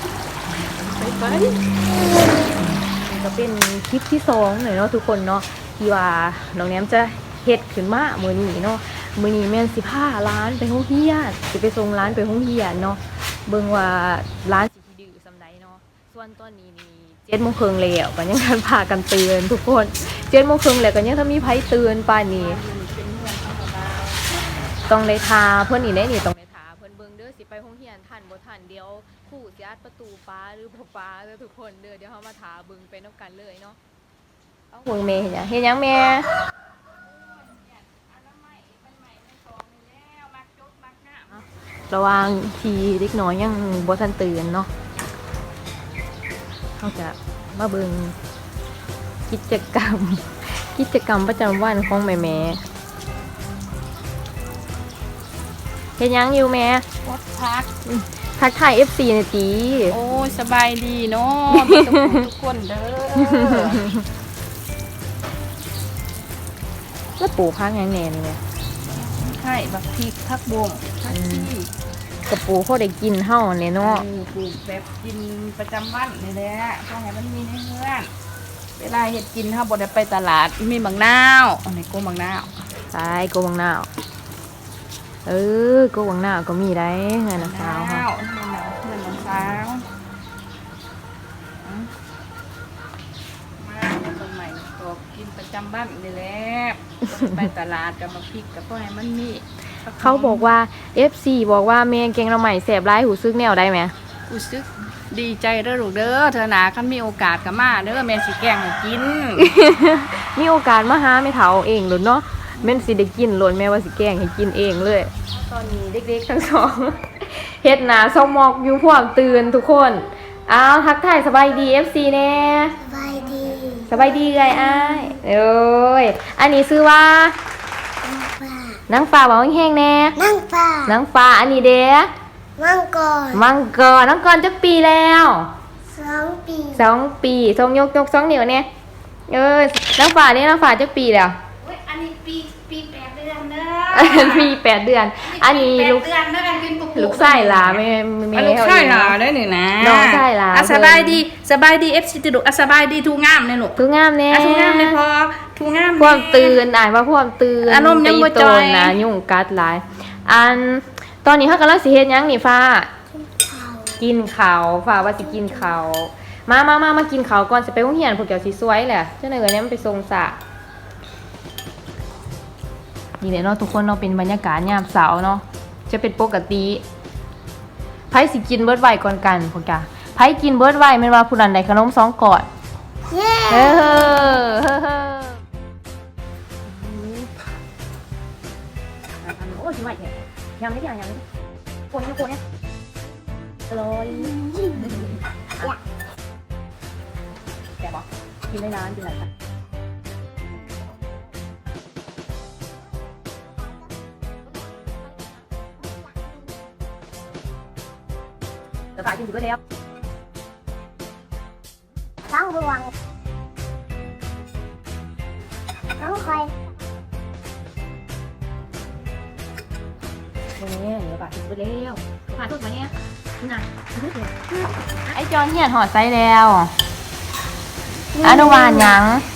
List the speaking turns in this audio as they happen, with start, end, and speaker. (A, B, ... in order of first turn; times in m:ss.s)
0:00.5-0:01.6 A
0:02.6-0:22.6 A
0:22.4-0:24.2 B
0:24.9-0:33.8 A
0:34.7-0:36.3 A
0:37.0-0:41.4 B
0:41.9-0:44.7 A
0:46.8-0:48.2 A
0:49.3-0:52.6 A
0:56.0-0:56.8 A
0:57.0-0:57.7 B
0:57.8-1:00.0 A
0:59.9-1:03.8 B
1:01.5-1:02.2 A
1:03.2-1:04.0 A
1:07.2-1:08.4 A
1:08.9-1:11.7 B
1:11.1-1:11.5 A
1:12.3-1:14.0 A
1:13.8-1:18.1 B
1:18.8-1:22.5 B
1:22.9-1:23.9 A
1:25.2-1:28.0 A
1:27.4-1:29.8 B
1:31.6-1:31.9 B
1:33.6-1:40.5 B
1:40.0-1:43.9 A
1:44.3-1:49.5 B
1:49.4-2:02.8 A
2:02.8-2:05.2 C
2:03.9-2:07.3 A
2:08.0-2:08.8 C
2:08.9-2:10.2 A
2:10.2-2:10.9 C
2:10.8-2:12.1 A
2:12.6-2:13.4 C
2:13.3-2:15.5 A
2:15.8-2:16.8 C
2:16.7-2:18.6 A
2:19.3-2:21.4 A
2:21.6-2:24.5 B
2:23.9-2:26.1 A
2:25.2-2:27.8 B
2:26.9-2:29.2 A
2:28.3-2:33.8 B
2:29.8-2:31.2 A
2:33.8-2:35.0 A
2:34.3-2:36.6 B
2:36.0-2:42.9 A
2:37.6-2:39.0 B
2:43.1-2:44.0 C
2:44.0-2:50.4 A
2:45.1-2:45.7 C
2:53.2-2:56.8 A
2:58.1-3:02.5 A
3:03.1-3:04.4 C
3:03.5-3:05.4 A
3:06.7-3:07.3 A
3:09.2-3:11.2 A
3:11.9-3:12.4 A
3:13.7-3:15.8 A
3:14.2-3:15.0 C
3:17.8-3:19.3 A
3:29.0-3:29.6 A
3:32.2-3:32.9 C
3:36.0-3:36.5 C
3:40.6-3:44.4 A
3:45.1-3:46.7 A
3:48.2-3:49.0 C
3:48.2-3:49.2 A